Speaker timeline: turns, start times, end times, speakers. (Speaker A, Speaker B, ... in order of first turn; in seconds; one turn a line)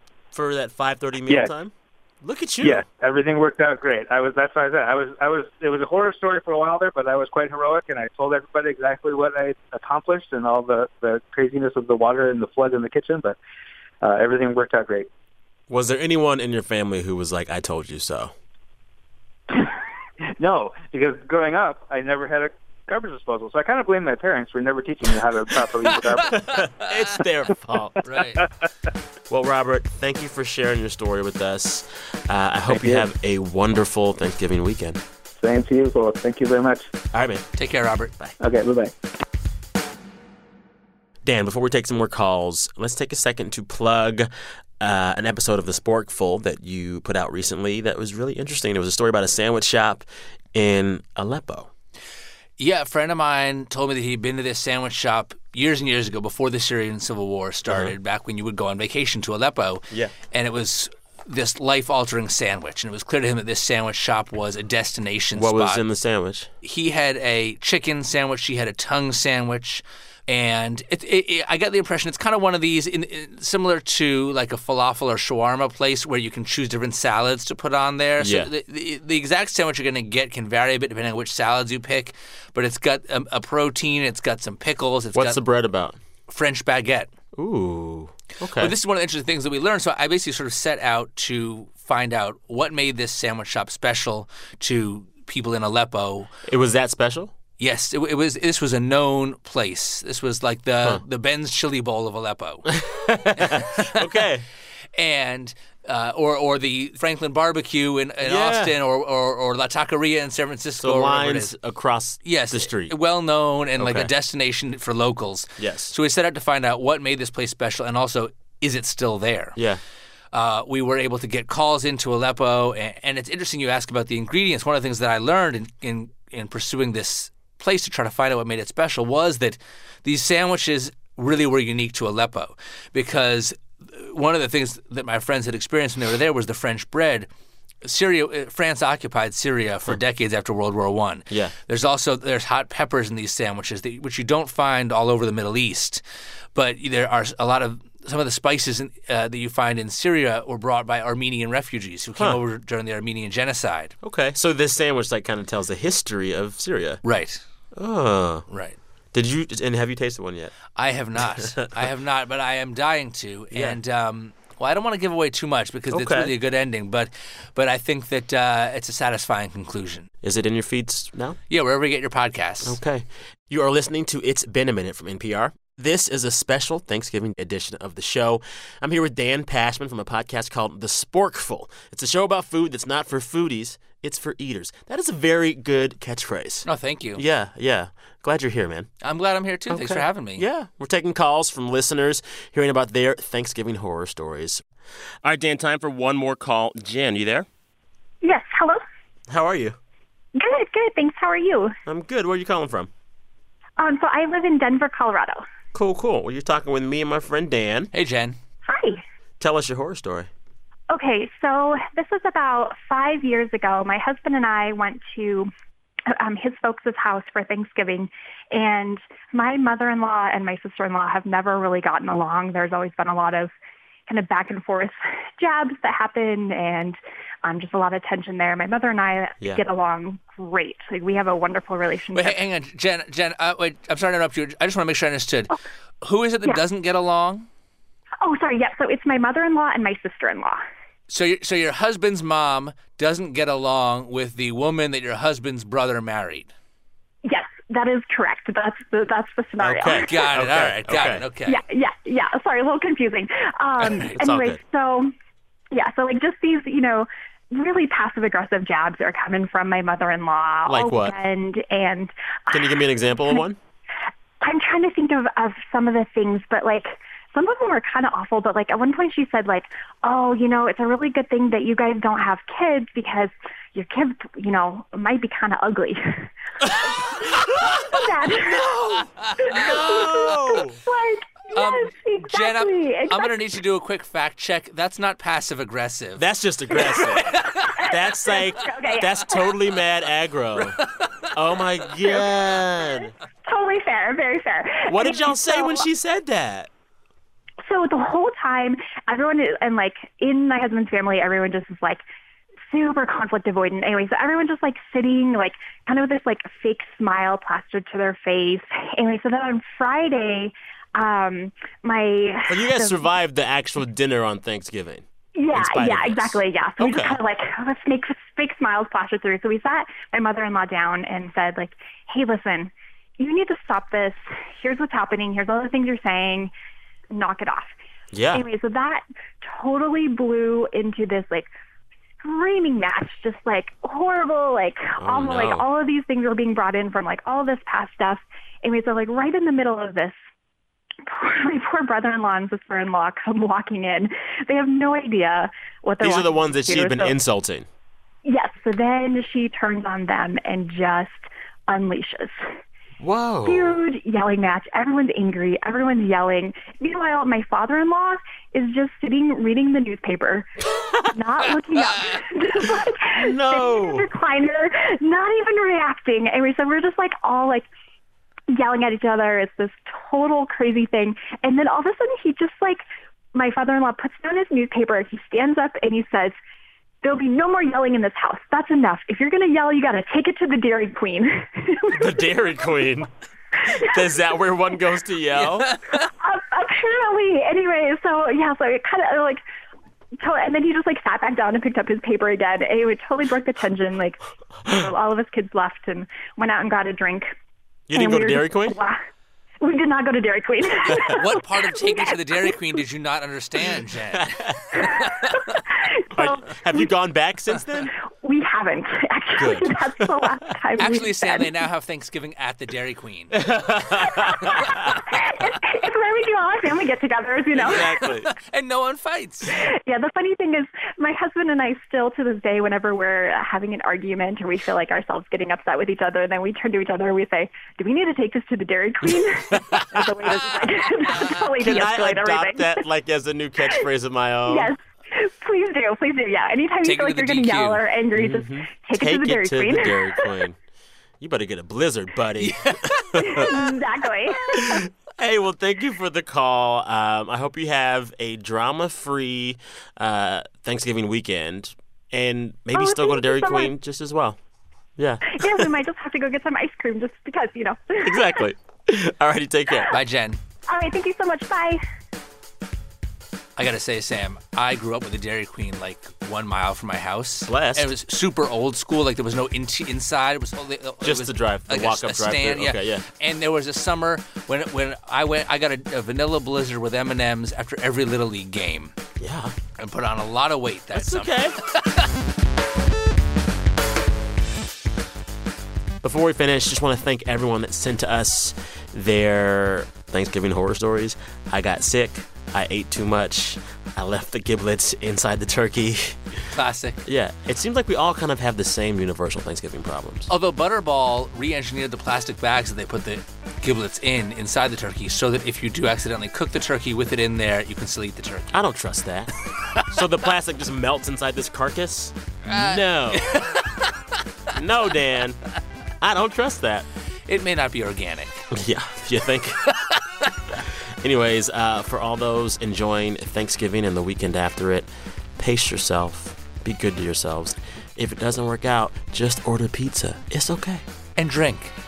Speaker A: 0.3-2.9
Speaker B: 2.6-13.4
Speaker B: 14.0-15.1
Speaker A: 15.7-18.3
Speaker B: 20.4-26.4
Speaker A: 26.3-28.0
Speaker C: 28.1-28.4
Speaker A: 29.3-35.0
Speaker B: 32.7-33.1
Speaker B: 35.4-36.9
Speaker A: 37.1-37.5
Speaker C: 37.6-38.1
Speaker B: 38.4-38.9
Speaker A: 41.2-44.3
Speaker A: 44.8-51.7
Speaker C: 52.6-65.8
Speaker A: 57.7-57.9
Speaker A: 65.3-66.5
Speaker C: 66.6-85.4
Speaker A: 78.2-78.5
Speaker A: 85.2-86.0
Speaker C: 86.3-87.1
Speaker A: 87.4-88.7
Speaker C: 88.6-96.3
Speaker A: 96.5-97.3
Speaker C: 97.6-102.7
Speaker A: 102.7-104.5
Speaker C: 103.4-104.0
Speaker C: 105.0-111.5
Speaker A: 108.2-108.7
Speaker A: 110.8-112.9
Speaker C: 112.2-119.6
Speaker A: 113.8-114.1
Speaker A: 115.6-115.9
Speaker A: 119.6-119.8
Speaker C: 120.3-137.3
Speaker C: 137.8-146.0
Speaker A: 141.3-141.6
Speaker C: 146.5-153.9
Speaker A: 154.0-157.0
Speaker C: 157.0-157.4
Speaker A: 157.8-158.5
Speaker C: 158.5-158.8
Speaker A: 159.1-160.6
Speaker C: 160.8-170.1
Speaker A: 161.3-161.7
Speaker A: 163.5-163.8
Speaker A: 165.9-166.3
Speaker A: 170.2-171.4
Speaker C: 171.5-172.8
Speaker A: 172.6-188.9
Speaker C: 186.7-187.2
Speaker C: 189.0-190.4
Speaker A: 189.7-194.6
Speaker A: 195.2-197.5
Speaker D: 198.2-198.8
Speaker A: 199.3-199.8
Speaker D: 200.3-201.8
Speaker A: 201.9-202.9
Speaker D: 203.8-205.4
Speaker A: 205.7-207.9
Speaker C: 207.9-208.4
Speaker D: 208.7-209.0
Speaker A: 209.4-210.3
Speaker D: 210.9-215.5
Speaker D: 216.1-223.5
Speaker D: 224.1-232.4
Speaker C: 232.1-235.5
Speaker C: 236.0-237.5
Speaker D: 238.2-240.6
Speaker C: 241.1-246.5
Speaker D: 247.2-250.1
Speaker A: 249.6-251.2
Speaker C: 250.1-251.6
Speaker D: 251.5-255.1
Speaker C: 253.8-254.1
Speaker A: 254.2-254.6
Speaker D: 255.7-262.6
Speaker A: 260.7-261.2
Speaker A: 262.5-263.6
Speaker D: 264.4-276.3
Speaker A: 276.7-280.8
Speaker D: 277.8-278.7
Speaker D: 279.4-283.3
Speaker C: 281.6-286.3
Speaker A: 286.2-290.8
Speaker C: 286.8-287.7
Speaker D: 287.8-289.4
Speaker C: 290.6-291.0
Speaker A: 291.3-293.1
Speaker D: 293.4-295.9
Speaker A: 294.9-296.7
Speaker D: 297.6-302.0
Speaker D: 302.7-313.1
Speaker A: 312.5-317.2
Speaker D: 315.4-326.5
Speaker D: 327.1-327.8
Speaker A: 328.1-328.4
Speaker D: 328.3-331.5
Speaker D: 332.2-340.1
Speaker A: 335.0-335.6
Speaker D: 341.1-347.2
Speaker A: 346.0-347.7
Speaker D: 348.2-352.5
Speaker A: 353.0-353.8
Speaker D: 353.4-360.5
Speaker D: 361.1-367.7
Speaker A: 363.1-364.1
Speaker D: 368.5-376.4
Speaker D: 377.0-382.1
Speaker A: 381.9-383.1
Speaker A: 383.6-385.7
Speaker C: 385.4-386.1
Speaker D: 386.2-389.4
Speaker D: 390.2-397.3
Speaker A: 397.9-398.8
Speaker D: 397.9-399.0
Speaker D: 399.6-402.1
Speaker C: 401.1-405.3
Speaker A: 404.2-404.5
Speaker D: 405.8-406.9
Speaker A: 406.1-407.9
Speaker D: 408.0-411.5
Speaker A: 409.4-410.2
Speaker C: 410.8-413.3
Speaker A: 413.3-415.1
Speaker D: 415.1-417.9
Speaker A: 417.5-418.3
Speaker C: 417.8-419.6
Speaker D: 419.6-432.9
Speaker A: 429.2-430.6
Speaker A: 431.2-434.7
Speaker D: 434.5-440.1
Speaker C: 436.8-437.8
Speaker A: 438.1-440.6
Speaker A: 441.2-443.8
Speaker C: 442.4-442.9
Speaker D: 443.2-444.8
Speaker A: 444.4-454.4
Speaker D: 452.7-453.7
Speaker A: 455.0-455.6
Speaker D: 455.3-458.4
Speaker A: 458.0-459.9
Speaker C: 459.9-460.4
Speaker D: 460.7-461.8
Speaker C: 463.6-478.9
Speaker A: 467.5-467.9
Speaker A: 471.0-473.0
Speaker A: 479.2-479.6
Speaker C: 479.8-482.1
Speaker A: 480.9-481.6
Speaker A: 486.0-496.3
Speaker C: 496.5-497.0
Speaker A: 497.1-500.3
Speaker C: 500.3-508.5
Speaker A: 508.5-513.4
Speaker C: 512.5-513.9
Speaker A: 514.5-515.4
Speaker A: 516.0-516.9
Speaker C: 517.3-518.5
Speaker A: 518.5-519.6
Speaker A: 520.5-530.8
Speaker C: 531.2-531.7